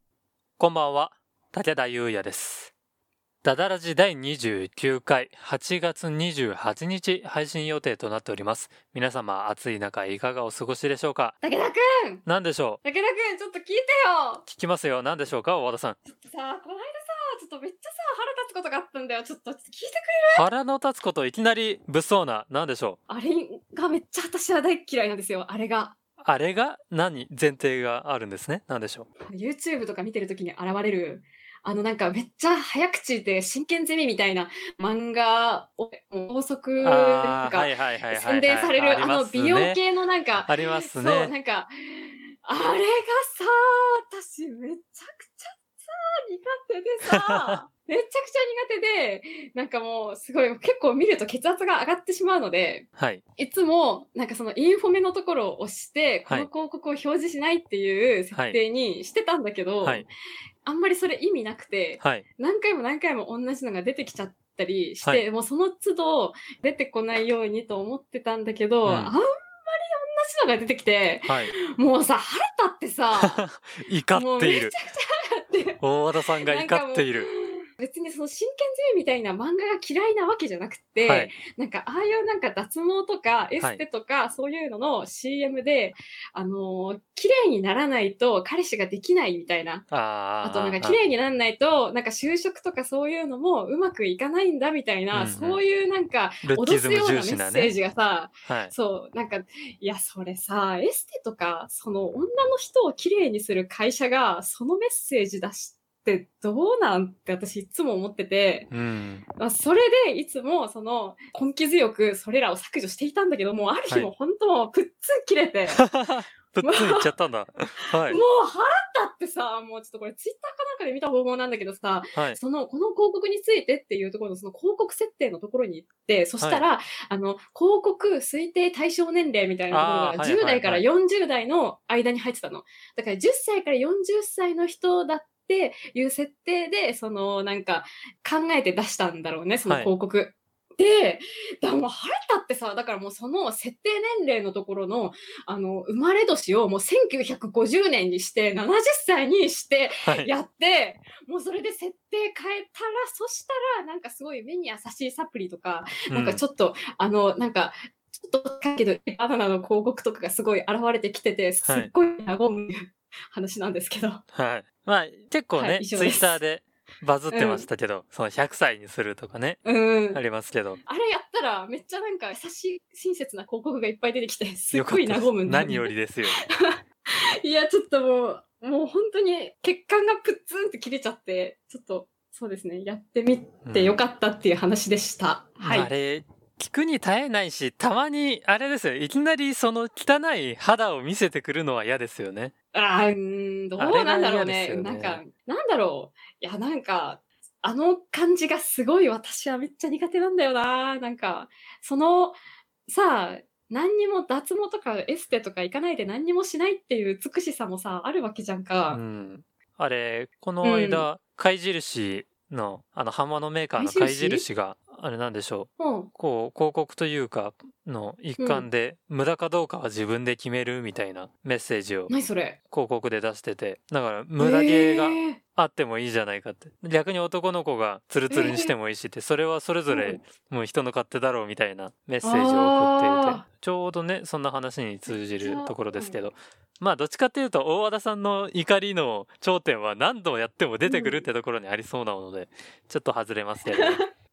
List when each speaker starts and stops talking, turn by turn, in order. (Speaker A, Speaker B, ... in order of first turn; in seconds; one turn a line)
Speaker A: 0.6-2.7
Speaker A: 3.4-11.4
Speaker B: 11.4-12.2
Speaker A: 12.2-12.8
Speaker B: 12.8-14.4
Speaker A: 14.5-16.0
Speaker B: 16.1-20.4
Speaker A: 20.3-23.0
Speaker B: 23.1-26.0
Speaker A: 26.2-29.1
Speaker B: 29.2-60.1
Speaker A: 36.8-39.8
Speaker A: 40.5-41.3
Speaker A: 47.1-47.6
Speaker A: 53.0-53.2
Speaker A: 58.3-58.6
Speaker B: 60.6-73.4
Speaker A: 62.0-62.2
Speaker A: 68.8-69.1
Speaker A: 71.3-71.5
Speaker A: 73.2-74.7
Speaker B: 74.1-75.8
Speaker A: 75.8-77.3
Speaker B: 76.4-89.9
Speaker A: 81.0-81.3
Speaker A: 89.9-91.0
Speaker B: 90.4-108.7
Speaker A: 95.1-95.6
Speaker A: 96.4-97.7
Speaker A: 98.5-98.7
Speaker A: 108.7-109.3
Speaker B: 109.4-115.9
Speaker A: 115.7-118.2
Speaker B: 116.6-117.1
Speaker B: 118.1-164.2
Speaker A: 122.2-122.4
Speaker A: 126.4-126.7
Speaker A: 129.7-130.9
Speaker A: 139.7-139.9
Speaker A: 150.0-150.3
Speaker A: 156.1-156.4
Speaker A: 161.6-161.9
Speaker A: 164.3-170.8
Speaker B: 165.5-166.4
Speaker B: 167.3-167.7
Speaker B: 169.7-170.2
Speaker B: 170.8-175.9
Speaker A: 174.7-176.4
Speaker B: 177.4-185.9
Speaker A: 183.7-184.0
Speaker A: 185.6-192.5
Speaker B: 192.7-209.0
Speaker A: 193.8-195.2
Speaker A: 208.9-222.1
Speaker B: 210.6-211.1
Speaker B: 213.8-214.5
Speaker B: 215.8-216.1
Speaker B: 218.4-218.7
Speaker B: 222.1-222.6
Speaker A: 222.7-244.0
Speaker B: 224.4-225.4
Speaker B: 228.3-228.7
Speaker B: 229.9-230.2
Speaker B: 232.2-233.4
Speaker B: 235.1-236.2
Speaker B: 240.9-241.2
Speaker B: 243.7-244.1